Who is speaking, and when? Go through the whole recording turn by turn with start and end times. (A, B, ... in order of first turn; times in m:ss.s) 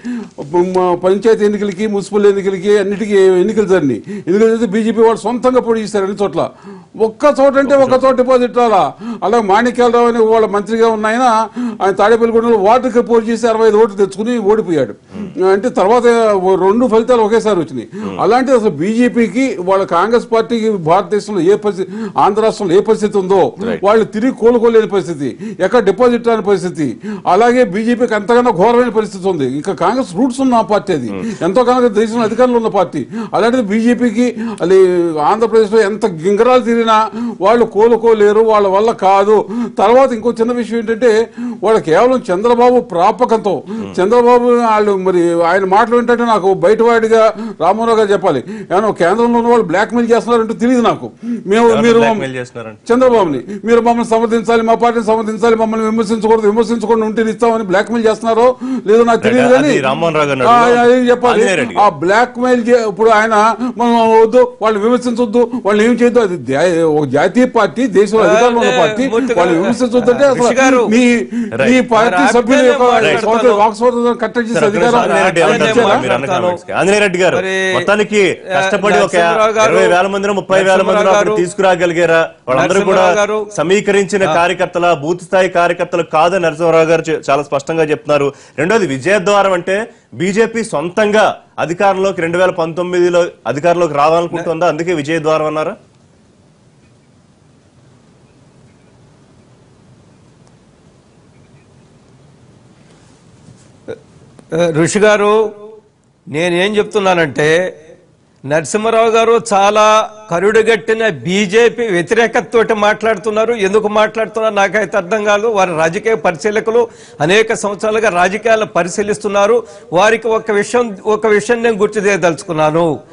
0:00.4-0:52.2 A
0:07.6-0:08.0 B
0:51.7-0:53.4 B
0:52.9-0:59.8 A
0:59.2-1:01.8 B
1:00.4-1:16.0 A
1:08.2-1:10.9 C
1:11.6-1:11.8 B
1:11.9-1:13.6 C
1:14.5-1:35.8 B
1:14.9-1:16.6 C
1:17.3-1:17.9 C
1:18.5-1:20.0 C
1:20.5-1:21.4 C
1:22.5-1:23.5 C
1:44.5-1:45.5 C
1:46.3-1:47.6 C
1:48.5-2:02.9 C